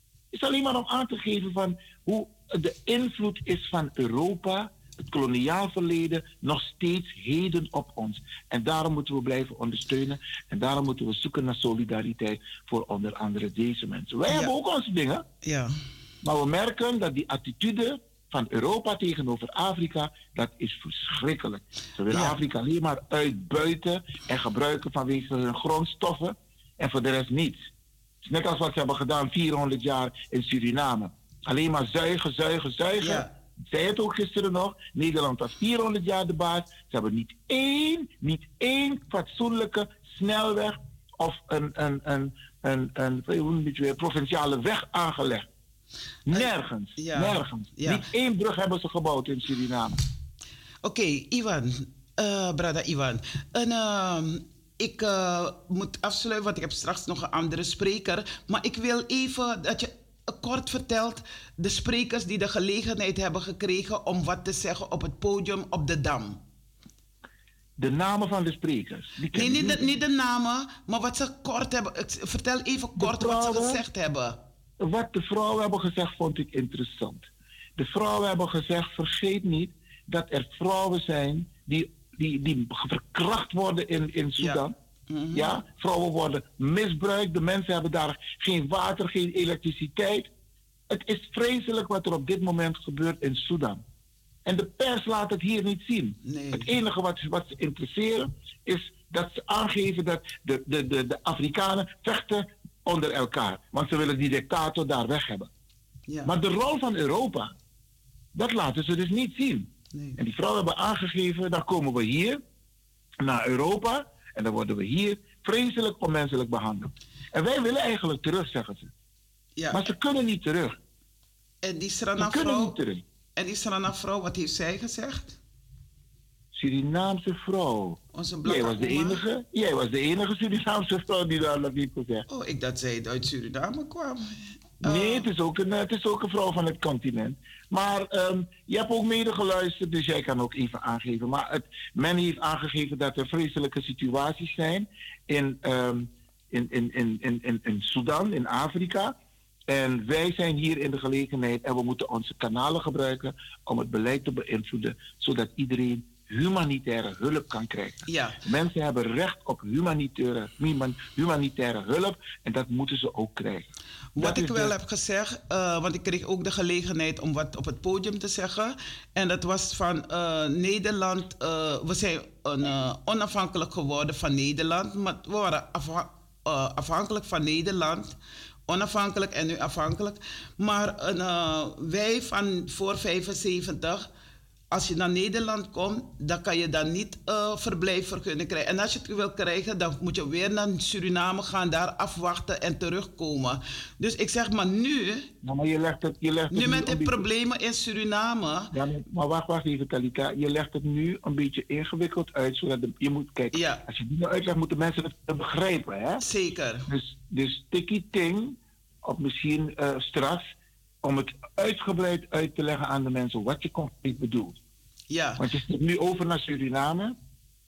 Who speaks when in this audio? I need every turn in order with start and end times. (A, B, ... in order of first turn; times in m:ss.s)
0:00.3-0:15.2 A
0:14.3-0:14.5 B
0:15.4-0:15.7 B
0:16.2-0:27.6 A
0:22.1-0:22.4 B
0:28.2-0:45.5 A
0:33.0-0:33.3 B
0:46.3-0:50.0 A
0:46.3-0:48.0 B
0:50.8-1:06.4 B
1:07.8-1:09.9 A
1:09.3-1:14.4 B
1:13.0-1:13.8 A
1:14.8-1:24.7 A
1:24.4-1:25.6 B
1:25.3-1:30.3 A
1:30.9-1:33.8 A
1:34.5-1:45.5 A
1:36.2-1:36.7 B
1:46.1-1:46.3 B
1:46.2-1:47.5 A
1:48.3-1:52.4 A
1:49.9-1:50.2 B
1:53.2-1:58.9 A
1:59.6-1:59.9 B
1:59.7-2:00.8 A
2:01.6-2:02.8 B
2:02.2-2:03.0 A
2:03.4-2:05.4 B
2:06.5-2:12.2 A
2:08.1-2:09.2 B
2:12.3-2:15.3 B
2:14.8-2:29.2 A
2:29.7-2:44.7 A
2:38.1-2:38.4 B
2:44.2-2:58.2 B
2:58.7-3:04.1 B
3:04.7-3:15.3 B
3:15.4-3:17.3 A
3:16.5-3:18.7 B
3:18.7-3:26.2 A
3:23.5-3:23.8 B
3:26.2-3:26.9 B
3:26.9-3:30.5 A
3:31.0-3:34.6 A
3:35.1-3:35.4 B
3:35.4-3:37.2 A